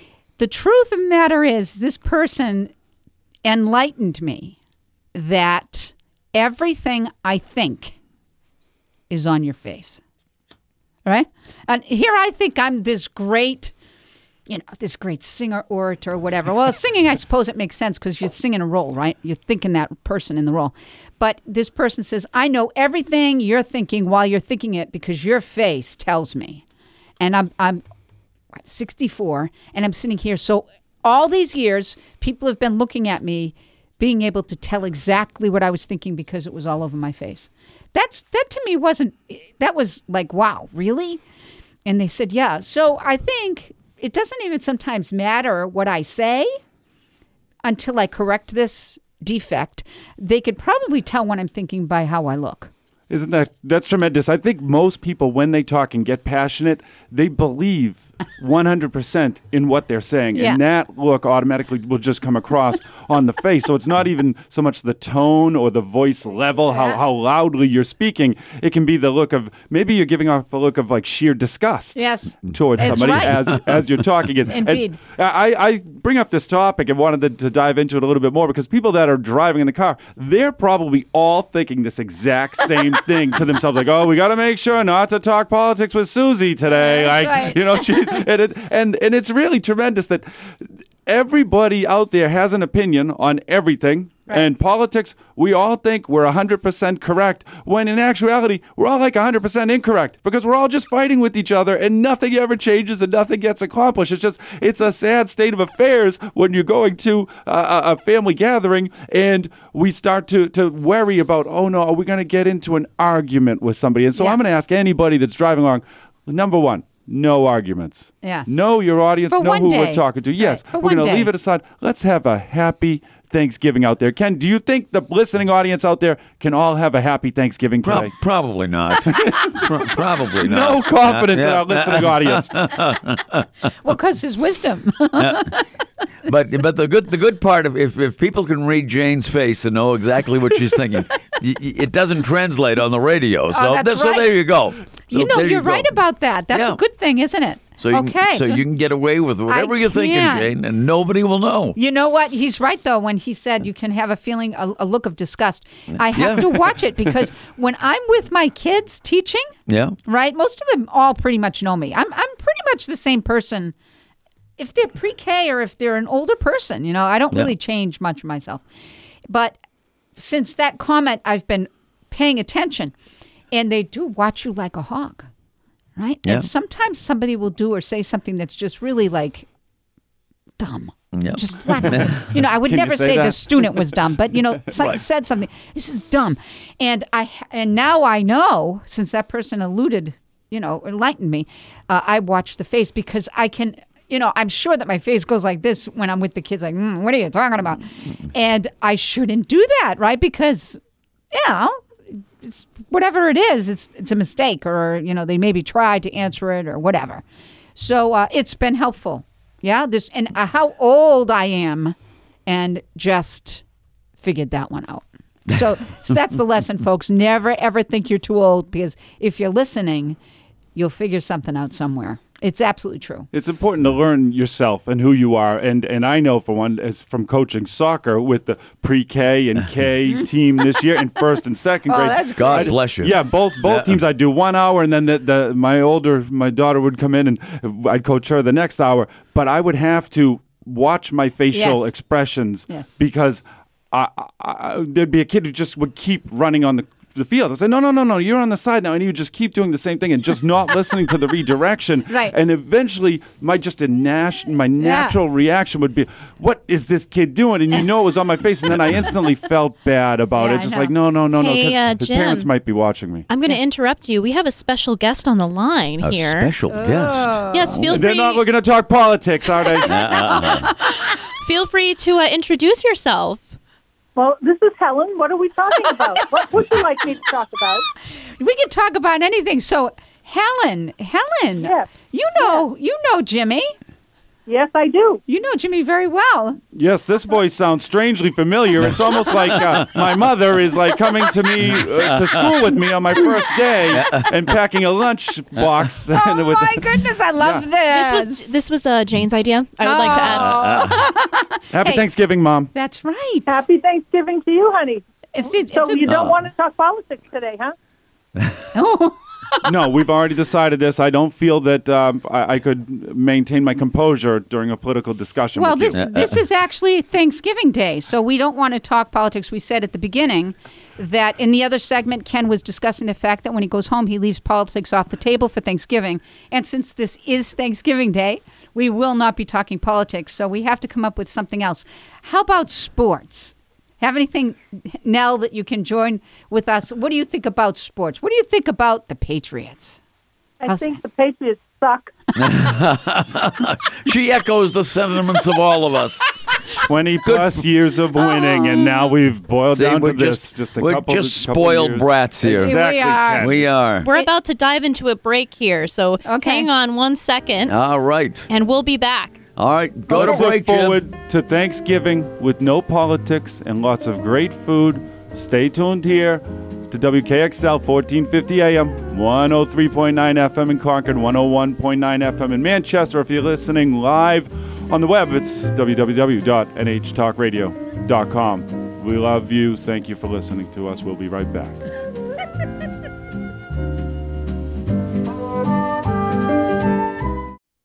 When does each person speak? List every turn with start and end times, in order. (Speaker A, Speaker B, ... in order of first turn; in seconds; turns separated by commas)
Speaker A: 0.4-2.7, Speaker A: 3.5-4.6, Speaker A: 5.1-8.0, Speaker A: 9.1-10.0, Speaker A: 11.1-13.7, Speaker A: 14.5-26.6, Speaker A: 27.2-27.8, Speaker A: 28.5-41.2, Speaker A: 41.9-46.6, Speaker A: 47.6-52.7, Speaker B: 53.1-128.1, Speaker A: 60.4-60.6, Speaker A: 72.0-73.6, Speaker C: 72.9-73.3, Speaker A: 74.5-75.0, Speaker A: 86.7-88.2, Speaker A: 119.3-121.3, Speaker C: 127.8-133.5, Speaker B: 129.0-129.8, Speaker B: 130.4-132.8, Speaker A: 133.8-135.7, Speaker C: 135.2-135.5, Speaker C: 136.2-145.9, Speaker A: 143.5-144.4, Speaker A: 145.1-148.6, Speaker C: 146.5-146.8, Speaker C: 147.8-151.8, Speaker A: 149.5-150.5, Speaker A: 151.8-159.5, Speaker C: 155.9-156.6, Speaker C: 159.7-160.0, Speaker A: 160.1-163.8, Speaker A: 164.6-168.6, Speaker A: 169.3-169.6, Speaker A: 170.2-172.9, Speaker A: 173.5-175.3, Speaker A: 176.0-179.5, Speaker A: 180.6-200.8, Speaker C: 181.1-182.2, Speaker B: 182.5-183.9, Speaker A: 201.3-207.2, Speaker A: 207.8-213.6, Speaker A: 214.2-220.2, Speaker A: 220.8-223.6, Speaker B: 223.3-263.3, Speaker A: 231.9-232.8, Speaker C: 232.4-234.0, Speaker A: 241.5-241.9, Speaker A: 252.1-252.3, Speaker A: 254.8-255.2, Speaker A: 260.4-260.9, Speaker D: 261.3-262.5, Speaker D: 263.3-266.5, Speaker C: 266.0-268.0, Speaker A: 266.7-267.9, Speaker D: 267.5-268.4, Speaker B: 267.9-270.1, Speaker A: 269.6-271.2, Speaker C: 269.9-270.7, Speaker D: 270.6-273.5, Speaker E: 274.1-277.9, Speaker A: 278.4-283.7, Speaker E: 281.6-281.9, Speaker E: 284.5-285.2, Speaker A: 285.3-286.6, Speaker B: 286.7-297.6, Speaker C: 289.6-289.9, Speaker C: 291.8-292.7, Speaker C: 293.9-294.3, Speaker A: 296.1-298.5, Speaker D: 297.9-301.0, Speaker A: 299.8-302.1, Speaker C: 300.1-301.0, Speaker B: 301.7-302.7, Speaker A: 302.7-303.6, Speaker E: 303.5-307.7, Speaker A: 305.4-306.1, Speaker C: 306.1-306.4, Speaker A: 308.7-309.8, Speaker B: 309.6-316.2, Speaker A: 315.6-340.0, Speaker C: 315.9-316.4, Speaker E: 340.6-342.1, Speaker A: 340.7-340.9, Speaker C: 342.4-347.6, Speaker B: 346.7-353.8, Speaker A: 348.2-349.1, Speaker C: 349.7-352.8, Speaker A: 352.6-354.3, Speaker C: 353.4-354.1, Speaker D: 354.0-357.8, Speaker A: 356.2-356.7, Speaker C: 357.7-358.5, Speaker D: 358.5-359.4, Speaker C: 359.6-361.0, Speaker B: 360.1-381.8